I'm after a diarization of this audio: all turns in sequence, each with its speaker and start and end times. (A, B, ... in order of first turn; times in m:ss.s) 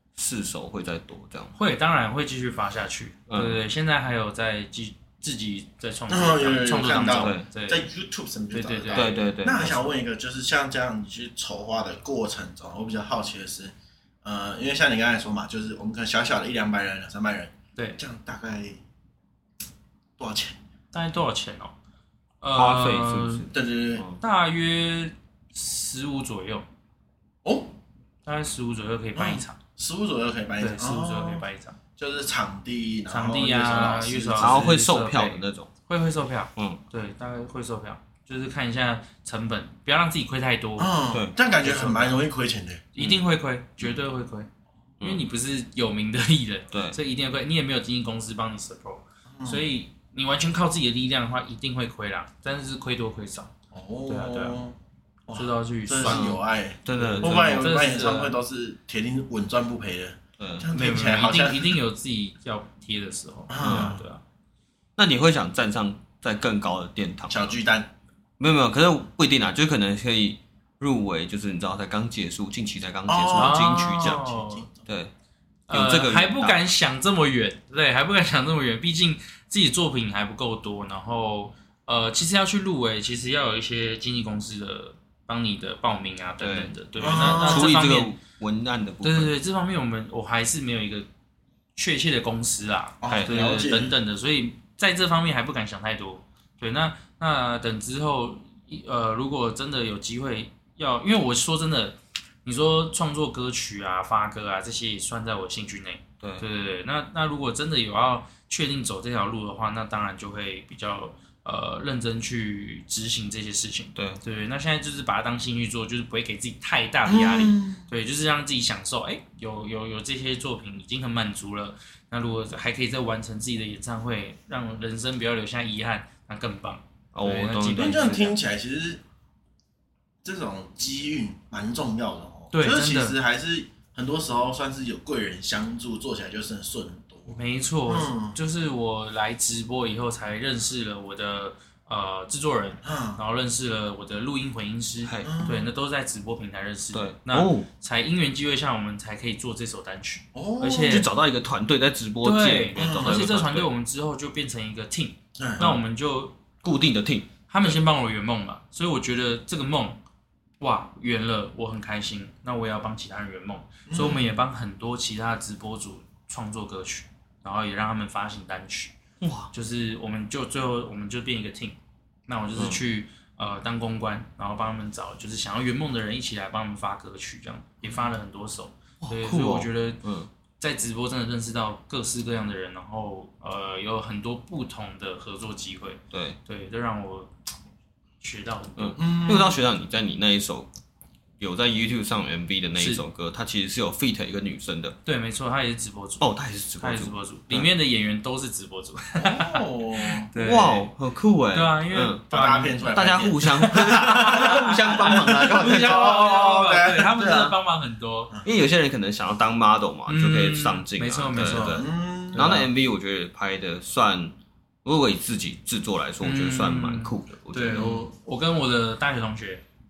0:00.2-0:01.6 A
0:01.6-0:07.8 B
0:03.3-0:03.6 A
0:06.1-0:18.8 C
0:07.1-0:07.4 A
0:08.5-0:09.2 B
0:08.9-0:09.8 A
0:20.2-0:20.6 C
0:20.9-0:21.7 B
0:22.4-0:23.4 B
0:22.5-0:24.2 A
0:23.5-0:24.0 C
0:24.2-0:26.6 B
0:27.4-0:27.8 C
0:28.2-0:29.6 B
0:29.1-0:31.4 C
0:30.6-0:31.8 B
0:32.0-0:34.7 C
0:33.1-0:40.9 B
0:34.4-0:35.7 A
0:40.8-0:42.8 C
0:41.6-0:42.1 B
0:42.9-0:44.5 B
0:45.0-0:53.5 B
0:46.7-0:47.0 A
0:49.4-0:49.6 C
0:53.7-0:54.8 C
0:54.1-0:54.6 B
0:55.3-1:01.8 C
0:55.3-0:56.4 B
0:56.0-0:57.6 A
0:57.0-0:58.3 B
1:00.4-1:00.6 A
1:00.7-1:04.2 B
1:03.5-1:04.0 C
1:03.6-1:03.9 A
1:05.0-1:07.5 A
1:07.3-1:07.9 C
1:08.4-1:14.2 A
1:13.1-1:14.8 C
1:13.3-1:14.7 B
1:14.9-1:15.1 A
1:15.7-1:28.1 B
1:15.7-1:16.6 A
1:26.4-1:29.3 A
1:27.0-1:27.8 C
1:29.0-1:31.1 B
1:31.8-2:08.3 B
1:33.0-1:34.0 C
1:33.1-1:33.3 A
1:53.9-1:54.2 A
1:57.0-1:57.8 C
2:07.1-2:08.3 A
2:07.7-2:09.0 C
2:10.2-2:18.4 C
2:12.5-2:13.2 B
2:17.3-2:31.1 B
2:22.8-2:23.2 C
2:25.0-2:25.3 A
2:25.2-2:25.7 C
2:26.9-2:27.7 A
2:30.3-2:31.0 C
2:30.9-2:33.7 A
2:32.2-2:36.3 B
2:32.8-2:33.3 C
2:35.4-2:35.7 C
2:36.6-2:37.7 A
2:37.5-2:40.0 B
2:40.6-2:48.9 B
2:43.9-2:44.3 C
2:49.2-2:49.5 A
2:49.5-2:51.8 B
2:52.3-3:00.0 B
2:59.0-3:00.3 A
3:00.6-3:07.3 B
3:06.1-3:06.4 A
3:08.2-3:09.0 B
3:08.8-3:10.7 A
3:09.0-3:09.6 C
3:11.4-3:15.0 A
3:12.8-3:13.0 B
3:15.0-3:20.9 B
3:16.2-3:17.7 A
3:19.2-3:20.3 C
3:20.3-3:22.2 A
3:21.5-3:28.3 B
3:22.3-3:27.2 C
3:22.9-3:26.1 A
3:27.2-3:27.6 A
3:28.4-3:34.3 A
3:30.1-3:32.7 B
3:31.4-3:32.6 C
3:34.8-3:38.0 A
3:36.2-3:39.6 B